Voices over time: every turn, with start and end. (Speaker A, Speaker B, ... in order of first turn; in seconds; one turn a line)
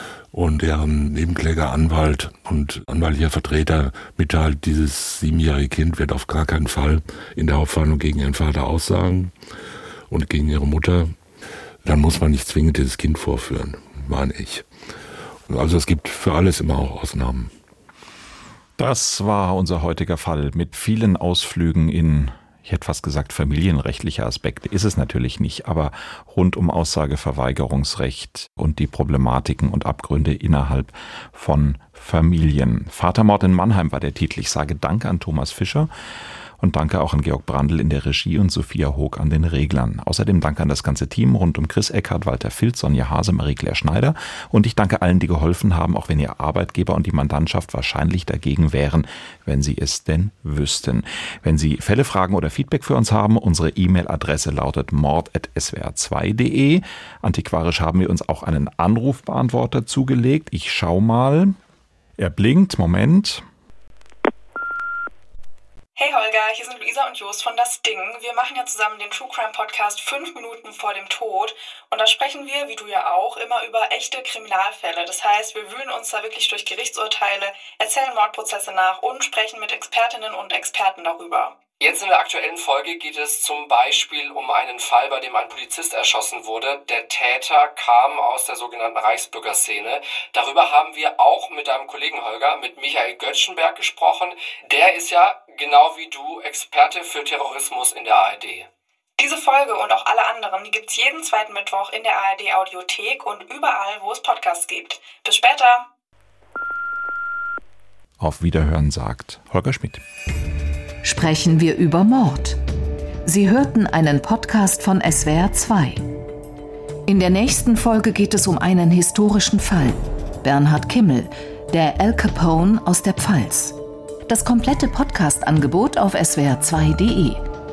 Speaker A: 0.3-9.3
Speaker A: 10.1-11.1
Speaker A: 11.8-14.7
Speaker A: 15.5-17.5
Speaker B: 18.8-35.9
Speaker B: 36.6-61.5
Speaker B: 62.2-63.4
Speaker C: 66.0-81.6
Speaker D: 81.8-98.7
Speaker C: 99.2-105.9
Speaker B: 108.2-110.0
Speaker E: 111.0-112.6
Speaker E: 113.2-116.1
Speaker E: 117.1-127.4